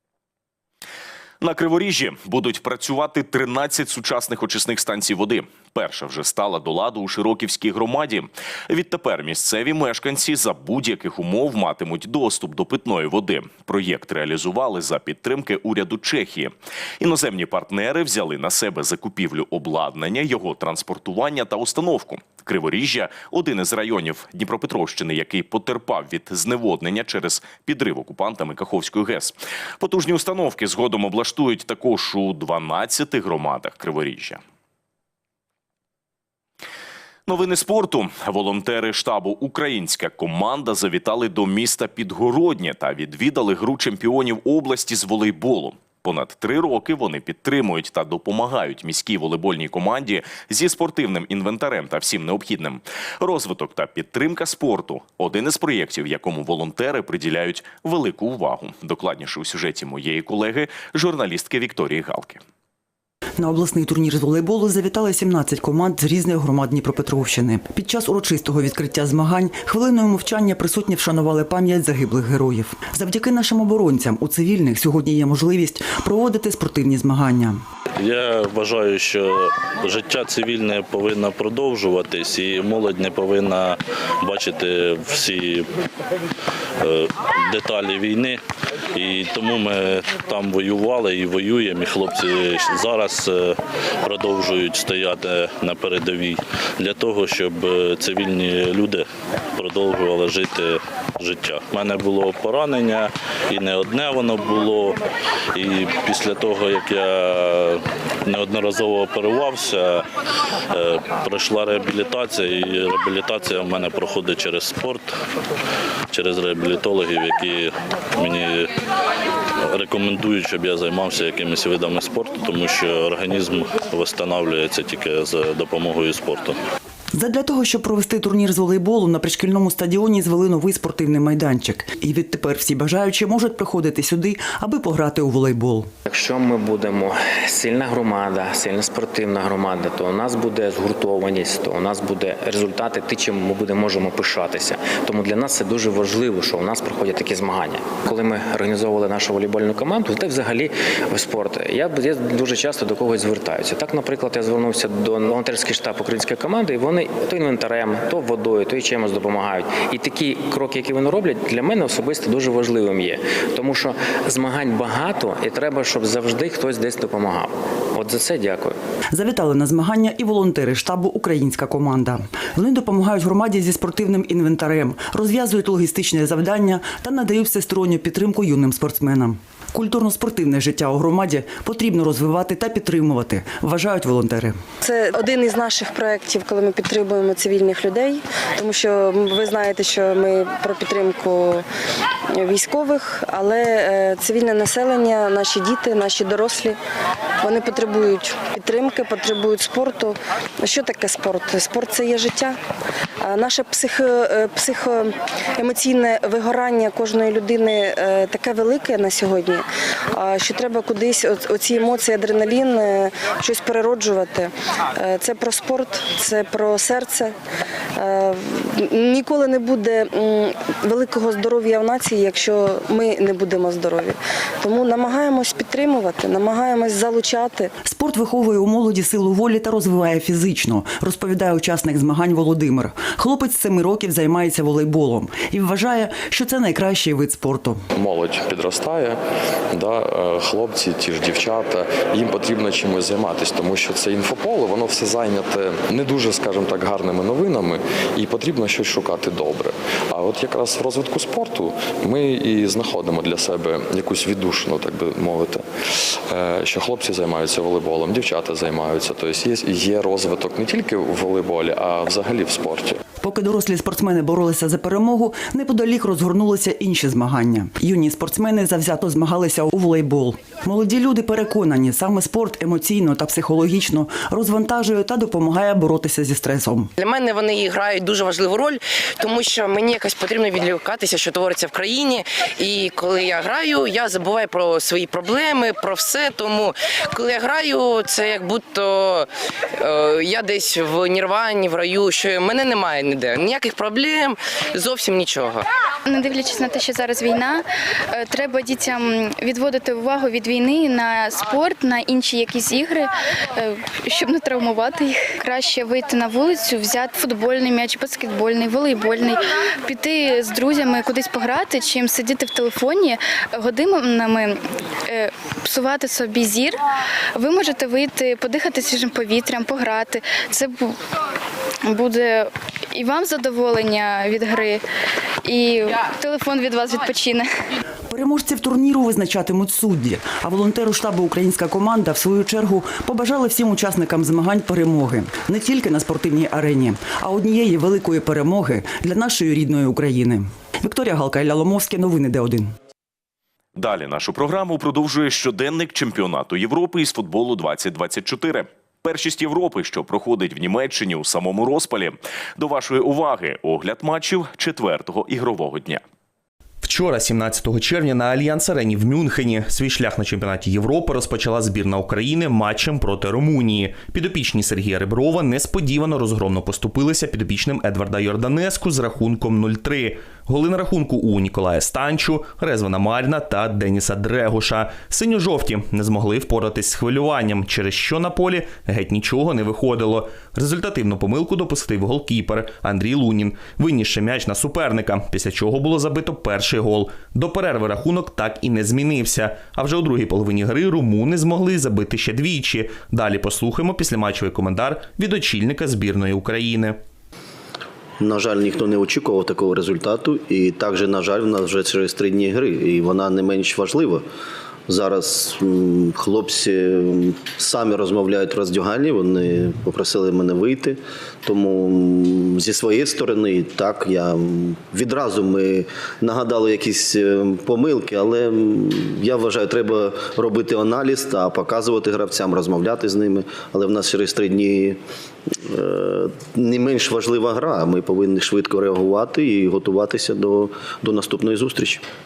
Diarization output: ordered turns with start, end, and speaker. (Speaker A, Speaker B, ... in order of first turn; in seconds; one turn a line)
Speaker A: 1.4-34.4
Speaker A: 37.3-62.4
Speaker B: 63.4-77.6
Speaker C: 78.0-85.7
Speaker C: 86.8-88.4
Speaker C: 88.9-105.0
Speaker C: 105.5-110.0
Speaker C: 110.7-115.1
Speaker C: 116.1-118.7
Speaker C: 119.7-126.6
Speaker B: 127.1-135.9
Speaker D: 136.0-168.8
Speaker B: 169.1-184.6
Speaker E: 184.8-191.6
Speaker E: 192.3-196.8
Speaker E: 197.4-202.6
Speaker E: 203.2-217.3
Speaker E: 217.9-227.7
Speaker B: 227.8-237.8
Speaker F: 237.9-239.2
Speaker F: 239.7-263.0
Speaker B: 263.2-276.9
Speaker G: 277.0-289.3
Speaker G: 289.8-295.6
Speaker H: 296.1-316.8
Speaker H: 317.3-321.0
Speaker H: 321.8-324.8
Speaker H: 325.4-327.5
Speaker B: 328.1-342.7
Speaker A: 343.7-356.0
Speaker I: 356.8-397.0
Speaker J: 398.2-404.2
Speaker J: 404.9-425.0
Speaker J: 425.6-432.0